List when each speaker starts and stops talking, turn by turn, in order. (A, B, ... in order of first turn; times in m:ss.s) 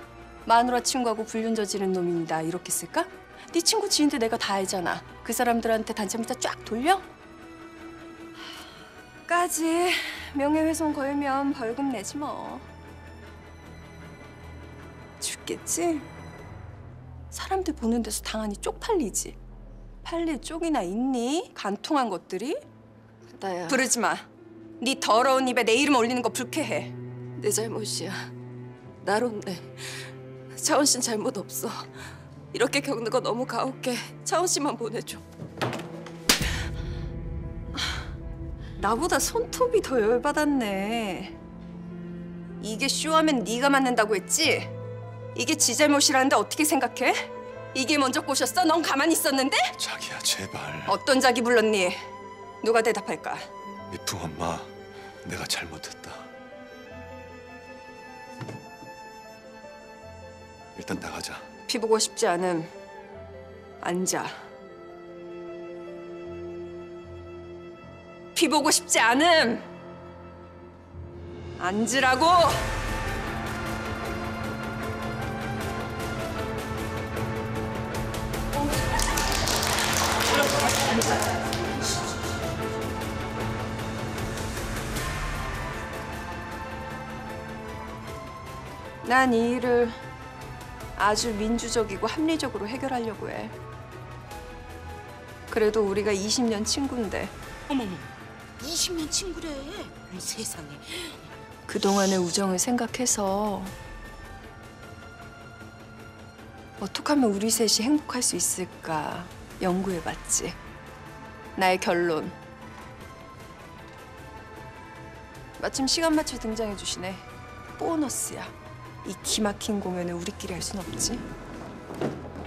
0:00.5-0:07.1 A
0:09.3-0:12.7 A
0:15.2-0:16.1 A
0:17.3-0:19.4 A
0:20.0-0:22.6 A
0:23.3-0:23.8 B
0:23.7-0:24.3 A
0:24.8-0:27.0 A
0:27.4-0:28.3 B
0:29.0-0:31.9 B
0:32.5-0:35.2 B
0:38.8-0:41.4 A
0:42.6-0:44.7 A
0:45.4-0:49.8 A
0:49.8-0:51.0 C
0:50.9-0:52.0 A
0:52.6-0:53.5 A
0:53.9-0:54.7 C
0:55.2-0:56.3 C
1:00.8-1:01.4 C
1:01.7-1:02.7 A
1:03.8-1:04.3 A
1:08.3-1:09.7 A
1:11.6-1:12.7 A
1:29.0-1:30.0 A
1:31.0-1:33.6 A
1:35.5-1:37.3 A
1:37.7-1:38.0 D
1:38.6-1:41.2 D
1:41.7-1:43.7 A
1:46.8-1:50.6 A
1:51.6-1:52.4 A
1:55.6-2:01.2 A